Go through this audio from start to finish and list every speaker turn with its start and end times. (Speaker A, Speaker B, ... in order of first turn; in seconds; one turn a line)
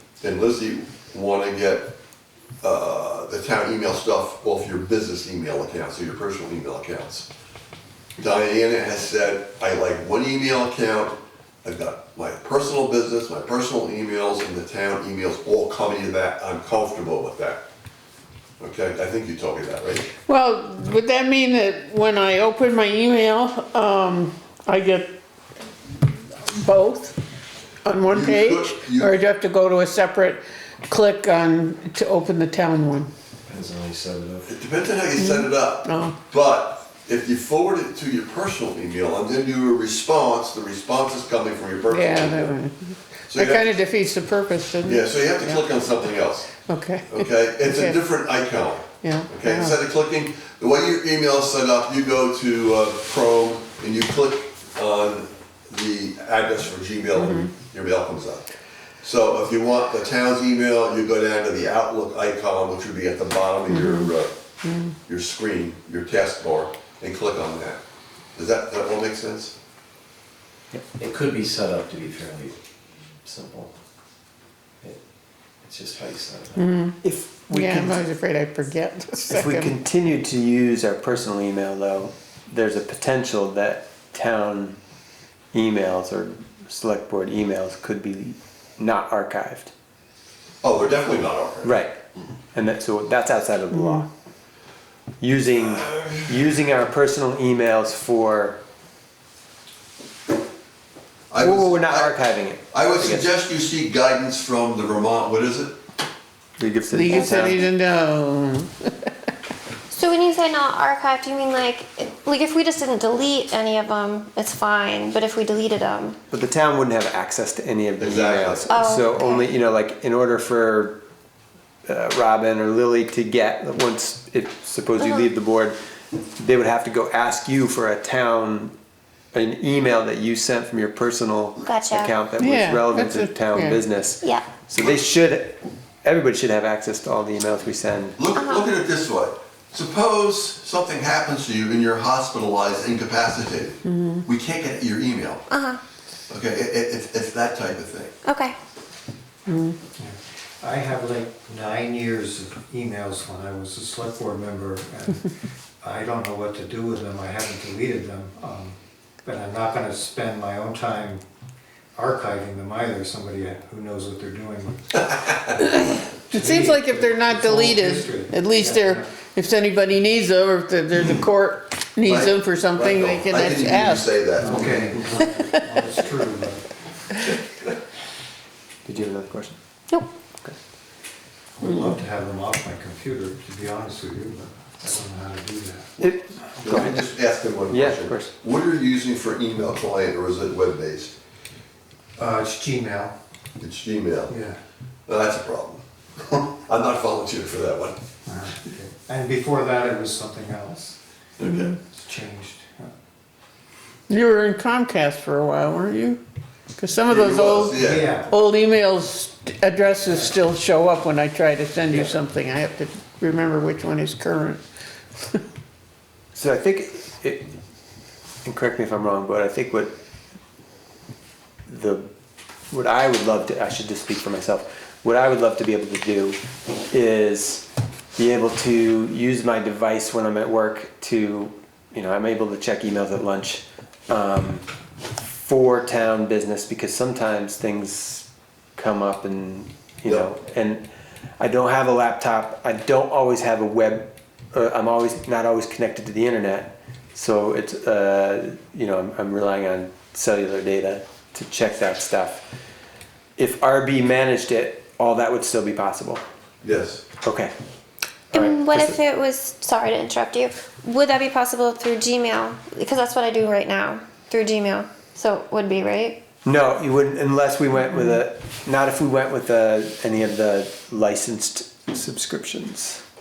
Speaker A: 0.2-1.9
Speaker A: 2.6-7.3
Speaker A: 8.2-17.6
Speaker A: 18.6-20.1
Speaker B: 20.2-25.2
Speaker B: 26.0-27.2
Speaker B: 27.8-33.1
Speaker A: 28.1-29.1
Speaker C: 33.5-34.5
Speaker A: 34.5-42.5
Speaker B: 35.2-36.2
Speaker B: 41.9-45.7
Speaker A: 43.3-43.7
Speaker A: 44.8-46.5
Speaker B: 46.6-48.0
Speaker A: 47.1-58.5
Speaker B: 49.0-49.8
Speaker B: 57.1-57.5
Speaker A: 59.0-64.3
Speaker B: 63.7-64.1
Speaker B: 64.6-64.9
Speaker A: 65.1-67.8
Speaker A: 68.3-69.5
Speaker C: 70.9-72.6
Speaker C: 73.2-73.7
Speaker C: 75.6-76.7
Speaker B: 76.6-77.0
Speaker D: 77.0-78.0
Speaker B: 77.5-79.8
Speaker D: 79.3-84.8
Speaker D: 85.5-89.7
Speaker A: 90.6-91.7
Speaker D: 91.6-92.0
Speaker D: 92.5-94.0
Speaker B: 93.7-94.0
Speaker D: 95.2-98.6
Speaker A: 95.5-96.2
Speaker A: 101.3-102.1
Speaker D: 101.4-103.3
Speaker A: 102.7-105.8
Speaker D: 106.6-107.6
Speaker B: 106.9-109.1
Speaker E: 109.9-116.2
Speaker D: 116.3-121.0
Speaker A: 118.0-118.7
Speaker E: 118.7-119.5
Speaker D: 121.8-125.8
Speaker E: 125.0-125.3
Speaker D: 126.4-128.7
Speaker D: 129.3-138.2
Speaker E: 131.6-132.1
Speaker B: 132.4-133.8
Speaker E: 134.2-134.5
Speaker A: 134.7-135.0
Speaker A: 138.2-145.4
Speaker E: 138.3-138.7
Speaker B: 143.8-144.2
Speaker E: 145.5-145.8
Speaker A: 146.3-148.1
Speaker E: 148.2-148.6
Speaker B: 149.5-149.8
Speaker F: 150.0-155.3
Speaker F: 155.8-161.2
Speaker F: 161.9-164.9
Speaker A: 165.1-165.5
Speaker B: 165.6-174.1
Speaker F: 166.3-169.1
Speaker A: 172.0-174.8
Speaker F: 174.4-176.6
Speaker D: 178.8-179.6
Speaker F: 181.6-185.9
Speaker D: 186.0-187.0
Speaker A: 186.6-191.1
Speaker D: 187.7-188.3
Speaker F: 192.2-193.1
Speaker A: 193.6-194.3
Speaker F: 194.3-194.6
Speaker A: 195.1-198.0
Speaker F: 198.3-201.0
Speaker A: 201.4-201.8
Speaker F: 201.7-202.9
Speaker B: 204.1-206.2
Speaker B: 206.8-214.6
Speaker A: 207.1-208.1
Speaker F: 207.8-208.3
Speaker B: 215.2-215.4
Speaker D: 216.3-217.5
Speaker D: 218.4-219.9
Speaker D: 221.7-222.1
Speaker D: 222.7-226.4
Speaker D: 226.9-234.6
Speaker D: 235.2-240.8
Speaker D: 241.4-252.4
Speaker D: 253.4-256.2
Speaker A: 256.6-257.0
Speaker D: 257.2-257.5
Speaker D: 258.3-259.0
Speaker E: 258.3-266.2
Speaker D: 266.4-273.0